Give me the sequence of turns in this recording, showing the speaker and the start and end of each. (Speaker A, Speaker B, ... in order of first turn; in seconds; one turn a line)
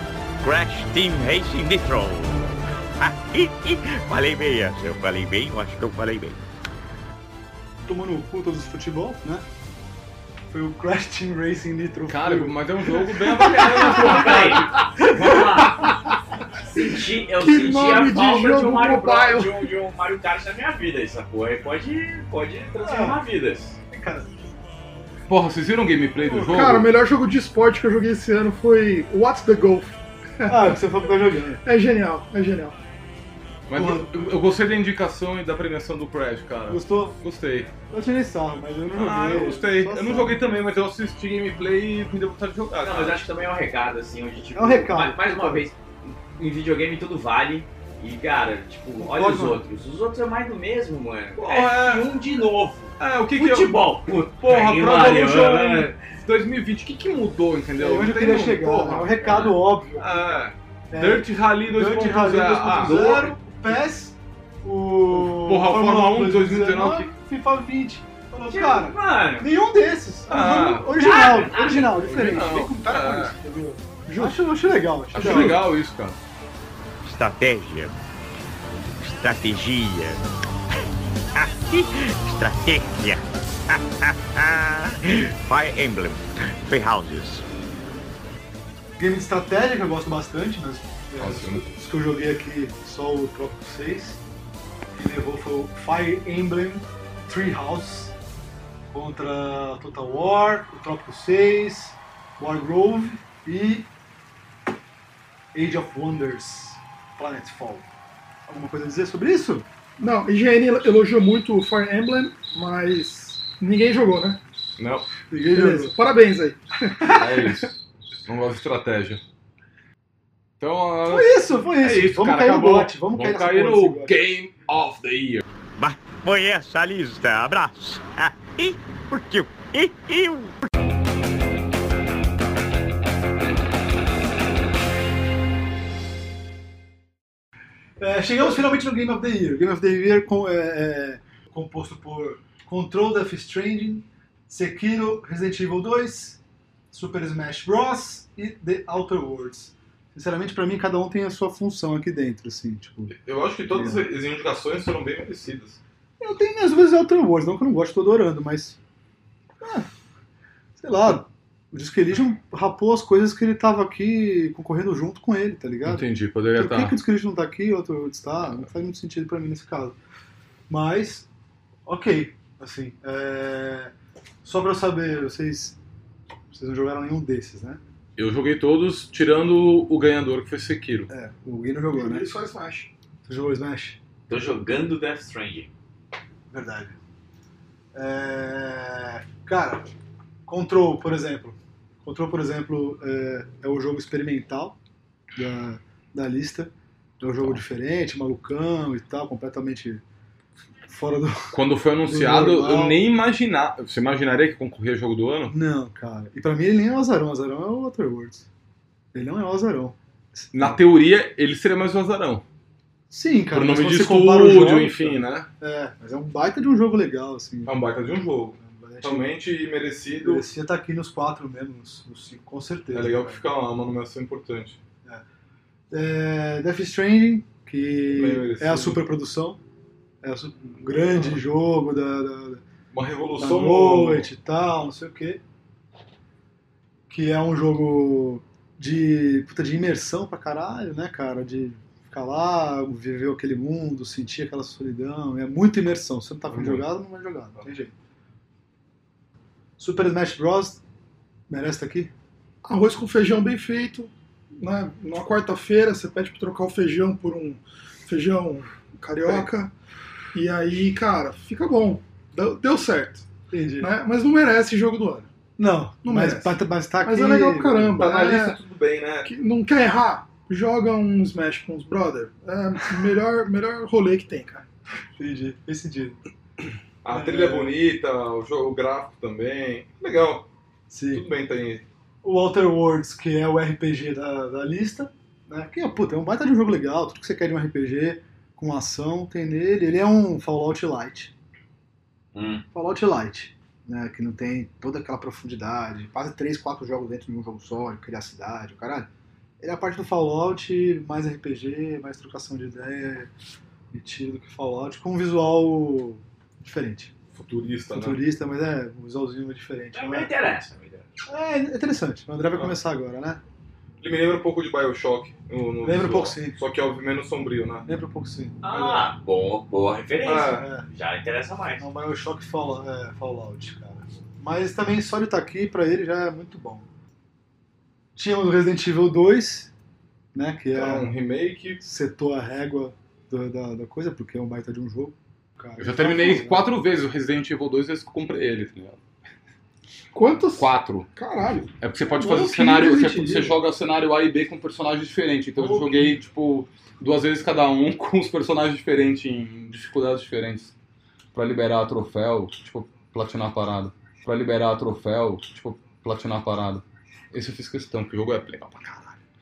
Speaker A: 0.4-6.4
Speaker B: 7.8-9.4
Speaker B: 10.5-14.4
Speaker C: 12.1-14.7
Speaker D: 13.8-16.0
Speaker D: 16.7-23.8
Speaker E: 17.4-19.6
Speaker B: 22.8-23.2
Speaker B: 23.9-24.3
Speaker C: 25.3-26.9
Speaker B: 26.2-26.8
Speaker E: 26.5-30.8
Speaker B: 30.5-31.6
Speaker E: 31.6-32.8
Speaker C: 33.7-37.7
Speaker B: 33.7-34.1
Speaker B: 36.7-37.2
Speaker B: 37.9-40.4
Speaker C: 38.9-43.2
Speaker D: 42.8-55.9
Speaker B: 44.5-45.6
Speaker B: 49.0-49.6
Speaker C: 51.4-52.1
Speaker C: 53.0-53.8
Speaker C: 54.4-63.4
Speaker B: 57.8-75.7
Speaker D: 59.2-59.5
Speaker C: 65.1-67.1
Speaker D: 68.5-69.5
Speaker C: 70.3-71.0
Speaker D: 70.9-72.3
Speaker C: 72.0-73.3
Speaker E: 74.0-74.4
Speaker C: 75.1-76.2
Speaker A: 77.0-78.0
Speaker A: 79.0-80.2
Speaker A: 81.3-87.4
Speaker B: 89.0-94.2
Speaker C: 91.2-91.6
Speaker B: 94.9-98.2
Speaker B: 98.9-103.9
Speaker B: 105.5-107.9
Speaker B: 108.5-109.7
Speaker E: 110.0-114.4
Speaker C: 114.8-115.1
Speaker B: 115.3-116.0
Speaker E: 115.5-116.6
Speaker B: 116.9-117.7
Speaker C: 117.1-119.2
Speaker C: 120.6-125.4
Speaker B: 121.0-124.2
Speaker A: 125.8-130.7
Speaker B: 138.0-146.4
Speaker B: 146.9-153.1
Speaker C: 153.1-155.8
Speaker B: 153.7-154.0
Speaker B: 156.2-158.8
Speaker B: 159.6-159.9
Speaker B: 160.8-170.0
Speaker C: 165.8-167.0
Speaker B: 170.7-171.3
Speaker B: 171.8-175.8
Speaker B: 176.5-177.8
Speaker C: 178.2-181.1
Speaker B: 181.1-182.3
Speaker E: 181.9-182.9
Speaker B: 183.2-184.0
Speaker D: 184.3-185.7
Speaker B: 186.5-186.9
Speaker B: 187.9-189.9
Speaker B: 190.4-194.8
Speaker B: 195.3-200.0
Speaker B: 200.9-203.0
Speaker C: 201.5-205.5
Speaker B: 205.5-208.4
Speaker B: 209.1-210.8
Speaker C: 210.5-212.4
Speaker B: 213.1-217.8
Speaker C: 213.5-215.5
Speaker C: 217.6-220.4
Speaker B: 218.6-219.3
Speaker B: 220.2-223.4
Speaker C: 222.9-224.8
Speaker B: 225.9-229.6
Speaker C: 228.1-229.0
Speaker B: 230.2-232.6
Speaker C: 232.9-234.3
Speaker B: 233.4-235.4
Speaker B: 237.1-247.9
Speaker C: 246.5-246.9
Speaker B: 249.8-250.8
Speaker B: 251.5-252.1
Speaker E: 252.6-259.7
Speaker E: 260.3-263.2
Speaker B: 263.5-263.9
Speaker E: 263.8-265.3
Speaker B: 265.6-268.0
Speaker E: 266.0-268.6
Speaker C: 268.0-269.3
Speaker E: 269.2-274.6
Speaker B: 275.2-276.2
Speaker C: 277.0-280.4
Speaker B: 277.1-277.7
Speaker B: 280.9-281.2
Speaker C: 281.1-281.8
Speaker B: 282.2-291.3
Speaker D: 292.3-292.6
Speaker B: 292.7-299.1
Speaker B: 299.6-303.3
Speaker B: 303.9-307.1
Speaker C: 307.3-308.2
Speaker B: 307.9-310.3
Speaker D: 309.9-311.1
Speaker B: 311.2-313.4
Speaker C: 314.0-317.9
Speaker B: 315.8-316.6
Speaker B: 317.9-319.1
Speaker D: 318.6-321.8
Speaker C: 320.2-320.7
Speaker B: 320.4-320.9
Speaker B: 321.8-326.9
Speaker B: 328.1-329.7
Speaker B: 330.3-331.1
Speaker C: 330.7-331.8
Speaker B: 331.8-336.6
Speaker C: 335.8-339.0
Speaker E: 340.1-341.7
Speaker C: 340.6-341.1
Speaker C: 341.8-350.7
Speaker B: 342.1-343.6
Speaker B: 345.6-346.2
Speaker C: 351.3-359.1